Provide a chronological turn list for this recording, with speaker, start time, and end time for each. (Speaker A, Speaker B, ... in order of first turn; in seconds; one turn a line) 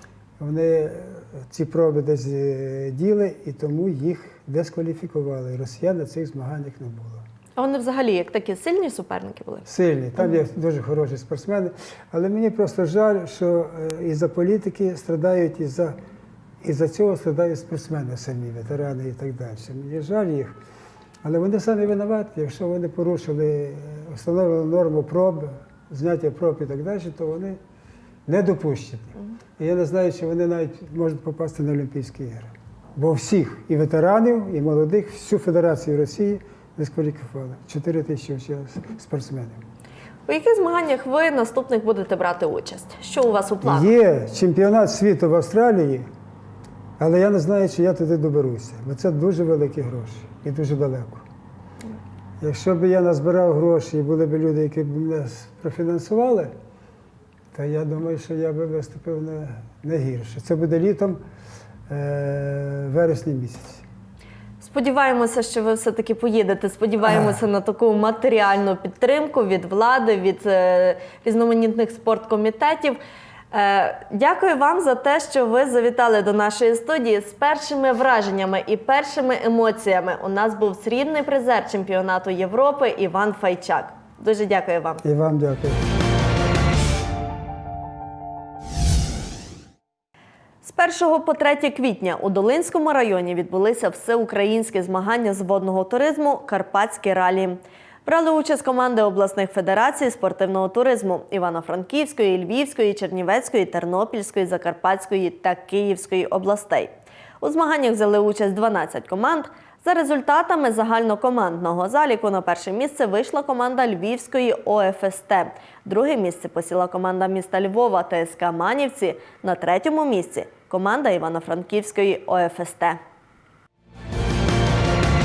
Speaker A: 0.4-7.2
Speaker B: 7.5-10.3
Speaker A: 9.7-15.9
Speaker A: 16.6-20.5
Speaker A: 21.2-27.6
Speaker A: 28.3-39.6
Speaker B: 40.3-43.9
Speaker A: 43.6-46.1
Speaker A: 47.0-51.2
Speaker A: 52.4-56.5
Speaker A: 57.5-61.2
Speaker A: 61.9-63.8
Speaker B: 64.6-73.0
Speaker A: 67.0-67.3
Speaker B: 73.5-85.0
Speaker A: 85.0-85.8
Speaker B: 90.6-123.0